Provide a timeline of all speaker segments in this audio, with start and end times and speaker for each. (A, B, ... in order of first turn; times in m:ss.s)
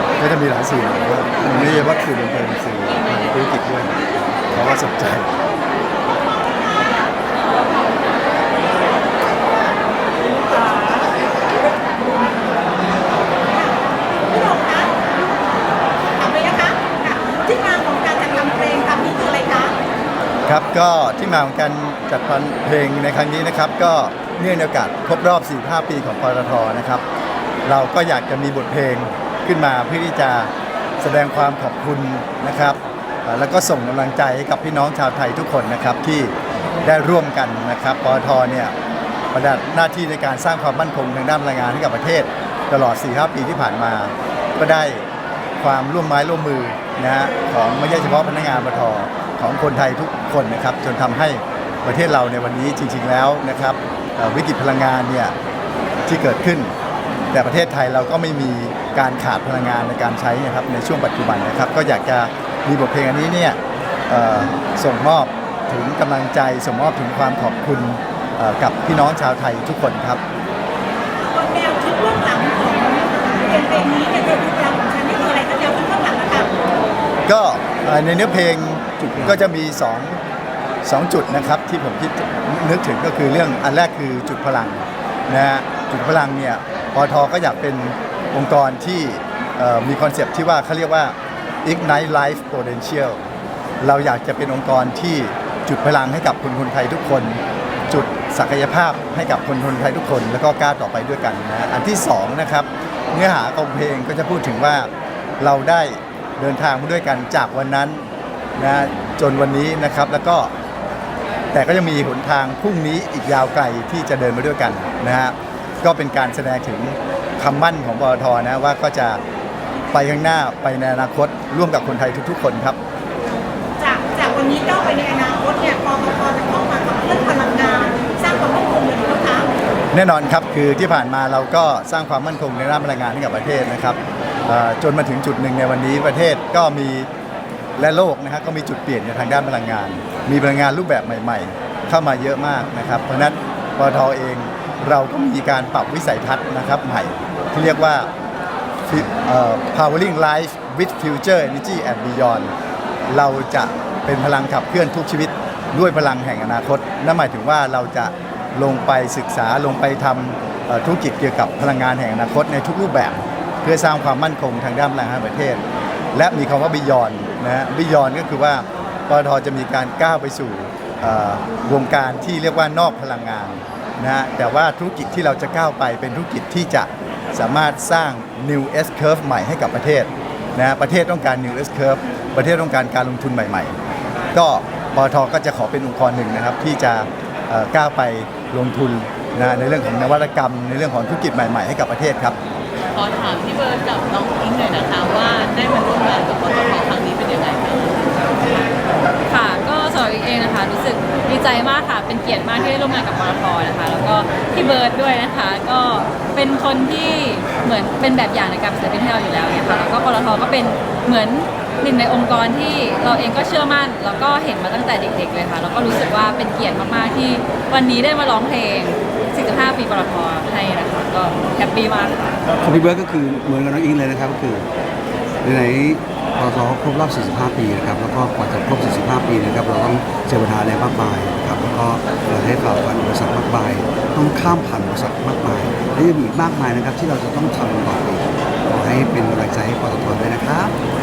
0:00.2-0:05.4 A
0:13.5-0:19.8 B
0:20.5-0:27.0 A
0:27.6-0:38.7 A
0:39.3-0:55.4 A
0:56.1-0:56.8 A
0:57.3-1:10.2 A
1:11.2-1:16.5 B
1:17.2-1:20.2 A
1:19.0-1:19.5 C
1:20.8-1:33.2 A
1:33.8-1:50.5 A
1:51.5-1:59.2 A
1:59.9-2:02.8 A
2:03.8-2:09.5 B
2:09.9-2:17.1 A
2:17.8-2:28.1 A
2:28.9-2:32.5 A
2:33.1-3:03.8 A
3:04.3-3:12.4 A
3:12.9-3:18.2 D
3:19.3-3:42.2 E
3:42.6-3:44.7 C
3:45.4-4:00.8 C